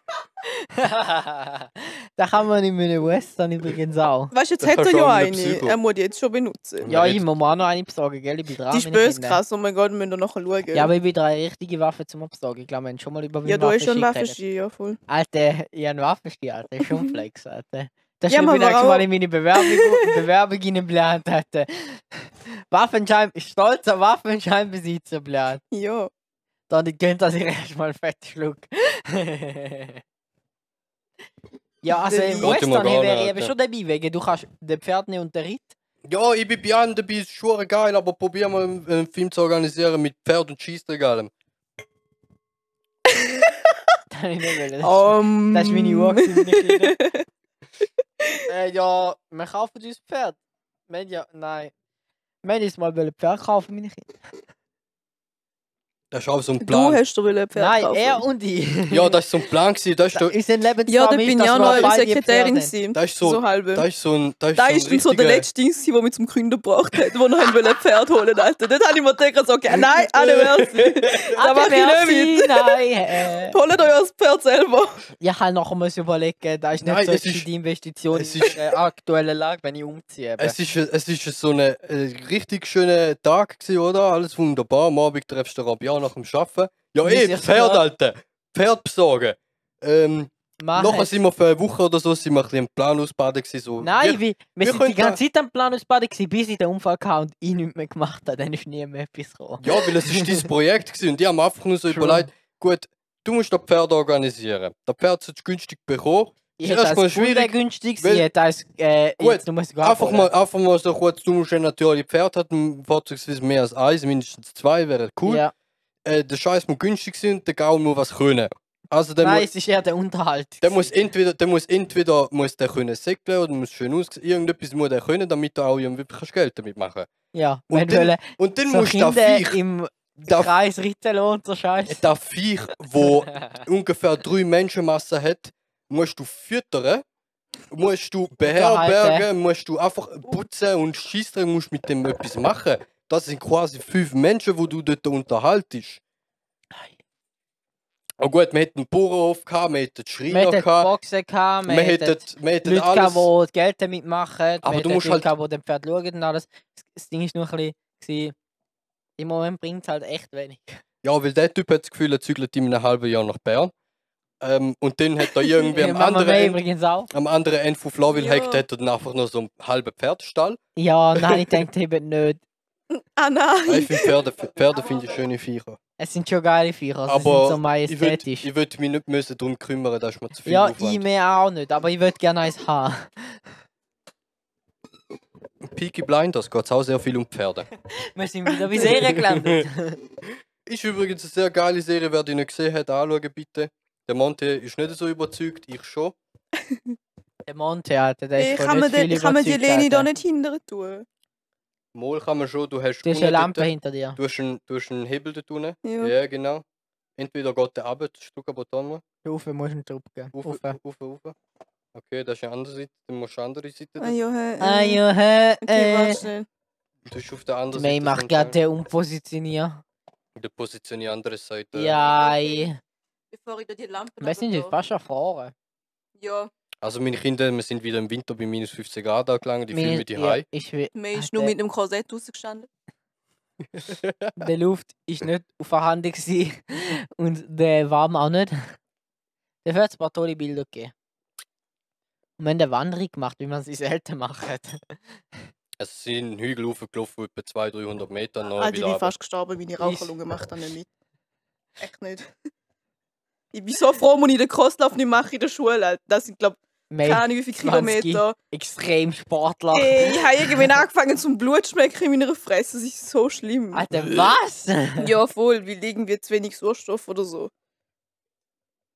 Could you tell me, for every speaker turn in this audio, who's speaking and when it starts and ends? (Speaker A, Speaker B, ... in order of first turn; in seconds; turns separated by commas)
Speaker A: 0.7-4.3, Speaker B: 4.3-6.9, Speaker C: 4.6-5.8, Speaker C: 6.8-7.2, Speaker A: 6.9-9.4, Speaker B: 8.7-10.9, Speaker A: 10.7-14.4, Speaker B: 13.4-15.0, Speaker A: 15.1-25.6, Speaker B: 16.8-17.2, Speaker B: 18.3-20.1, Speaker B: 25.7-26.1, Speaker A: 26.7-30.0, Speaker A: 31.8-35.7, Speaker B: 31.9-32.6, Speaker C: 32.4-33.5, Speaker C: 36.1-41.3, Speaker B: 43.1-43.5, Speaker A: 44.1-47.0, Speaker B: 44.8-47.2, Speaker B: 48.2-48.4, Speaker A: 48.5-50.4, Speaker A: 50.9-51.7, Speaker A: 52.4-54.1, Speaker C: 56.1-57.0, Speaker B: 56.6-58.2, Speaker A: 57.5-59.2, Speaker C: 58.9-60.3, Speaker A: 60.1-62.7, Speaker B: 60.9-63.9, Speaker C: 61.6-61.9, Speaker C: 62.9-65.5, Speaker B: 64.5-75.0, Speaker C: 69.8-71.2, Speaker A: 71.3-73.6, Speaker A: 75.2-80.5, Speaker C: 76.8-77.5, Speaker C: 78.1-78.6, Speaker C: 80.4-95.2, Speaker A: 87.0-87.8, Speaker A: 90.6-91.2, Speaker A: 93.8-100.5, Speaker C: 99.6-108.3, Speaker A: 101.9-102.3, Speaker A: 106.6-110.3, Speaker C: 109.2-115.4, Speaker A: 115.2-115.5, Speaker C: 116.0-119.5, Speaker A: 119.2-121.0, Speaker C: 120.6-127.1, Speaker A: 127.3-132.0, Speaker C: 127.7-129.6, Speaker C: 130.2-130.5, Speaker C: 131.9-137.0, Speaker A: 133.1-133.6, Speaker C: 137.7-146.0, Speaker A: 138.4-139.3, Speaker C: 148.2-150.9, Speaker A: 150.3-158.3, Speaker C: 151.7-153.3, Speaker C: 154.6-155.3, Speaker A: 159.2-160.8, Speaker C: 161.0-163.7, Speaker C: 164.4-166.6, Speaker A: 165.7-167.1, Speaker C: 167.1-170.6, Speaker B: 168.1-168.6, Speaker A: 170.8-172.4, Speaker C: 171.2-171.6, Speaker B: 172.9-174.1, Speaker C: 173.7-175.8, Speaker A: 176.0-178.5, Speaker C: 177.1-181.0, Speaker A: 180.4-183.4, Speaker C: 185.6-187.7, Speaker A: 188.0-190.0, Speaker B: 188.5-189.0, Speaker C: 188.8-189.7, Speaker C: 190.2-196.2, Speaker B: 196.6-196.9, Speaker A: 197.5-200.1, Speaker B: 198.3-201.1, Speaker C: 201.9-206.6, Speaker A: 203.0-204.2, Speaker B: 205.8-206.1, Speaker C: 207.2-209.0, Speaker A: 209.2-210.8, Speaker C: 210.3-211.3, Speaker C: 211.9-214.2, Speaker B: 214.0-215.0, Speaker A: 214.6-216.2, Speaker B: 215.6-216.5, Speaker C: 217.1-218.6, Speaker A: 217.7-219.8, Speaker C: 220.3-222.0, Speaker A: 221.7-222.8, Speaker B: 222.1-222.6, Speaker B: 223.3-224.7, Speaker A: 224.2-225.5, Speaker B: 226.2-226.5, Speaker C: 226.8-230.4, Speaker A: 229.7-231.5, Speaker B: 230.9-232.7, Speaker C: 233.7-234.4, Speaker A: 234.4-238.8, Speaker A: 239.6-240.9, Speaker A: 242.4-245.0, Speaker C: 245.8-249.1, Speaker B: 248.6-250.9, Speaker A: 249.8-250.1, Speaker B: 251.8-252.3, Speaker B: 253.5-258.4, Speaker A: 256.9-260.8, Speaker B: 259.7-263.8, Speaker A: 263.7-265.1, Speaker C: 263.9-264.3, Speaker B: 265.0-267.5